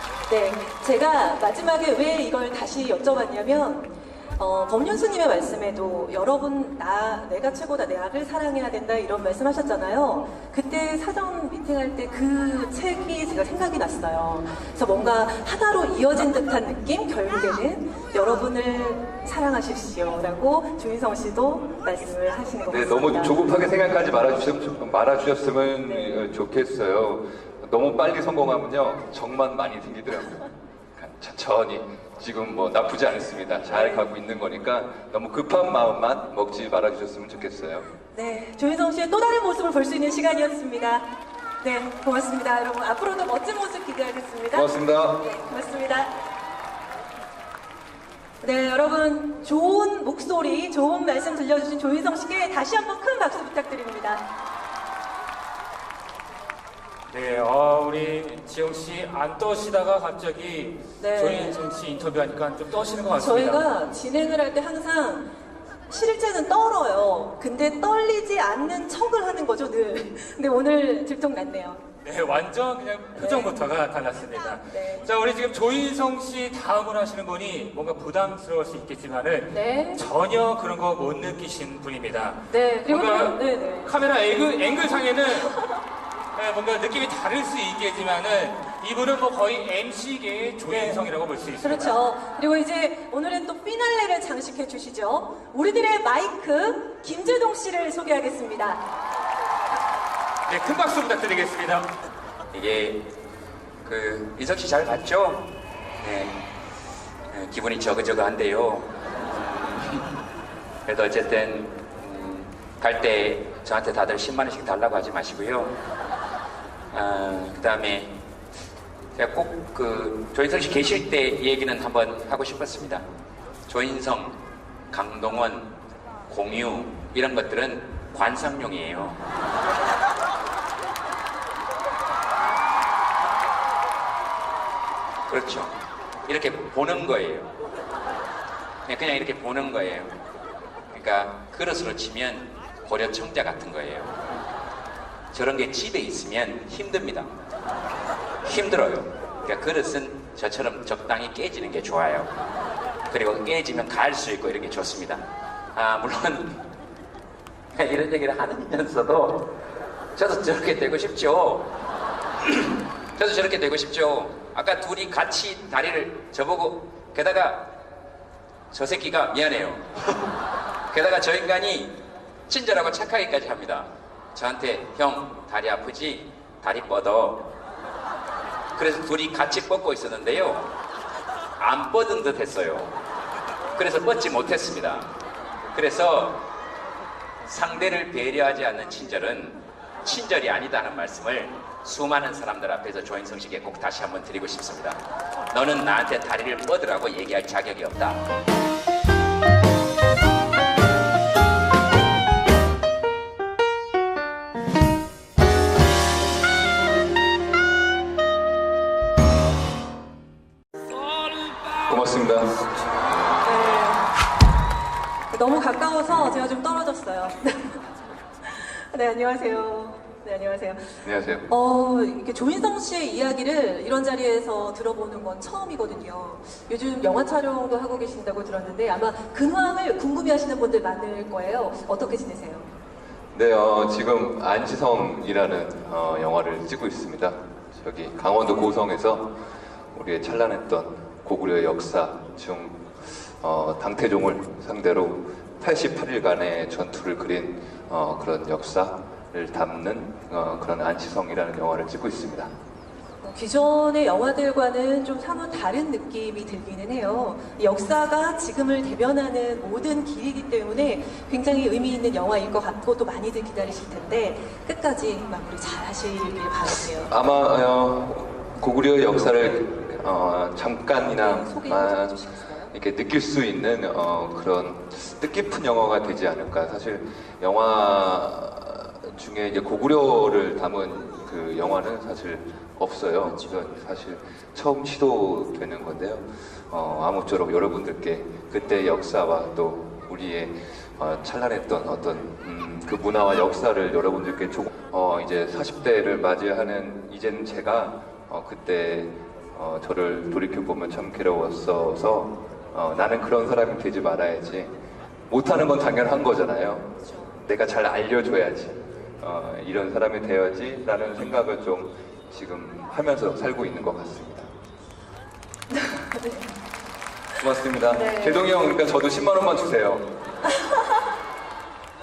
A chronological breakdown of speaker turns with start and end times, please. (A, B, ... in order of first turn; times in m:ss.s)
0:00.3-0:23.4 A
0:22.7-0:37.9 B
0:25.8-0:26.3 A
0:33.7-0:34.1 A
0:38.1-0:41.1 A
0:41.6-0:44.7 A
0:44.5-0:45.3 B
0:45.2-0:46.1 A
0:48.4-0:54.2 A
0:57.1-1:03.6 C
1:01.0-1:01.6 A
1:03.2-1:05.2 A
1:05.9-1:11.8 A
1:12.0-1:25.6 C
1:13.2-1:13.6 A
1:14.7-1:15.1 A
1:19.5-1:20.0 A
1:22.5-1:24.0 A
1:25.4-1:25.8 A
1:26.4-1:32.0 C
1:31.6-1:38.8 A
1:40.5-1:41.9 C
1:42.5-1:43.0 D
1:43.8-1:45.4 D
1:46.0-1:46.4 D
1:47.3-1:50.1 D
1:50.9-1:55.8 D
1:56.9-1:58.1 D
1:59.2-2:03.0 D
2:03.7-2:04.4 D
2:04.9-2:05.7 D
2:06.3-2:09.2 D
2:15.3-2:15.7 D
2:16.3-2:17.5 D
2:18.9-2:20.1 D
2:20.9-2:24.1 D
2:25.3-2:27.3 D
2:28.4-2:32.3 D
2:33.1-2:35.2 D
2:35.7-2:36.6 D
2:37.7-2:39.5 D
2:40.2-2:41.7 D
2:42.4-2:47.6 D
2:48.7-2:50.2 D
2:50.9-2:51.9 D
2:52.5-2:57.4 D
2:58.8-3:00.7 D
3:01.6-3:02.9 D
3:03.8-3:05.1 D
3:05.7-3:06.4 D
3:07.5-3:15.0 D
3:15.5-3:18.2 D
3:31.8-3:32.6 B
3:33.4-3:34.0 A
3:35.3-3:37.8 A
3:38.4-3:52.7 A
3:41.0-3:41.4 B
3:53.3-3:59.3 B
3:59.9-4:12.5 B
4:13.2-4:27.1 A
4:27.1-4:32.2 B
4:31.2-4:32.7 A
4:32.7-5:04.7 B
5:05.3-5:06.9 B
5:07.0-5:07.4 A
5:07.4-5:14.5 B
5:15.7-5:16.5 A
5:17.4-5:20.1 B
5:17.9-5:18.5 A
5:20.5-5:21.0 A